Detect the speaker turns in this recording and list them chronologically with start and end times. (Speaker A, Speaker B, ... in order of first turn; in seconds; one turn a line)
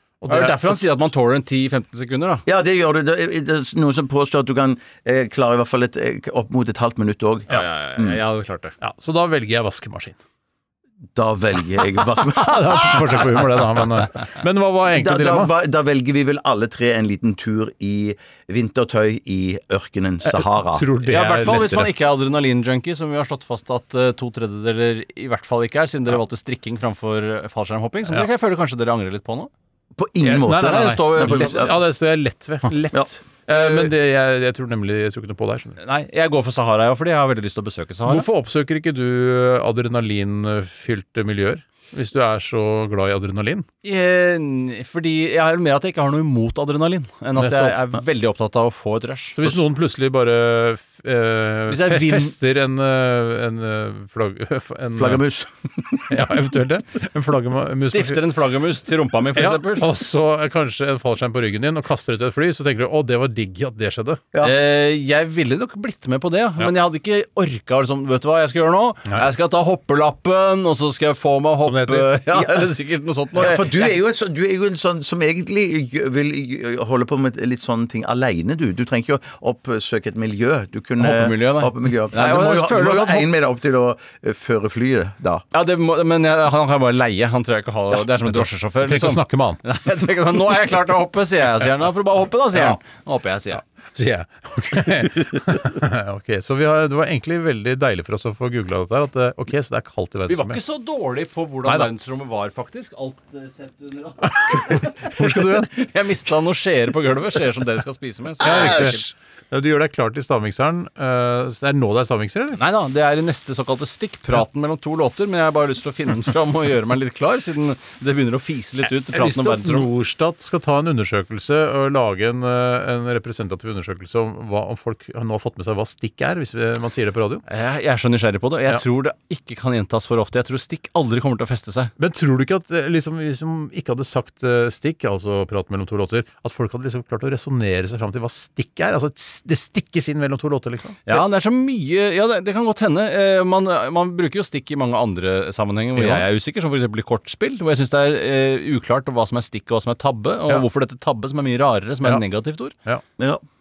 Speaker A: 0.2-0.8
Speaker B: 0.3-2.5
Speaker C: 2.5-8.2
Speaker B: 7.5-8.8
Speaker A: 8.8-10.2
Speaker C: 11.2-13.4
Speaker A: 12.3-15.5
Speaker C: 14.9-20.9
Speaker A: 20.2-21.9
Speaker B: 21.1-29.5
Speaker C: 30.0-31.8
Speaker A: 30.2-35.8
Speaker B: 30.5-31.8
Speaker B: 33.5-33.9
Speaker B: 35.8-38.3
Speaker A: 38.1-43.7
Speaker B: 43.8-49.4
Speaker A: 47.4-47.9
Speaker A: 49.4-55.2
Speaker B: 51.7-52.4
Speaker C: 55.0-56.2
Speaker A: 56.1-58.2
Speaker B: 57.9-59.9
Speaker A: 59.4-64.2
Speaker B: 64.4-74.0
Speaker A: 71.6-72.2
Speaker C: 72.3-72.6
Speaker C: 73.3-85.4
Speaker B: 81.0-83.3
Speaker B: 85.5-93.6
Speaker A: 88.2-89.6
Speaker A: 94.0-100.6
Speaker B: 100.3-109.1
Speaker A: 101.7-101.9
Speaker A: 104.3-105.7
Speaker A: 108.4-112.6
Speaker B: 112.5-119.9
Speaker A: 118.9-127.4
Speaker B: 127.5-131.9
Speaker A: 132.0-141.2
Speaker B: 141.1-152.7
Speaker A: 146.0-146.2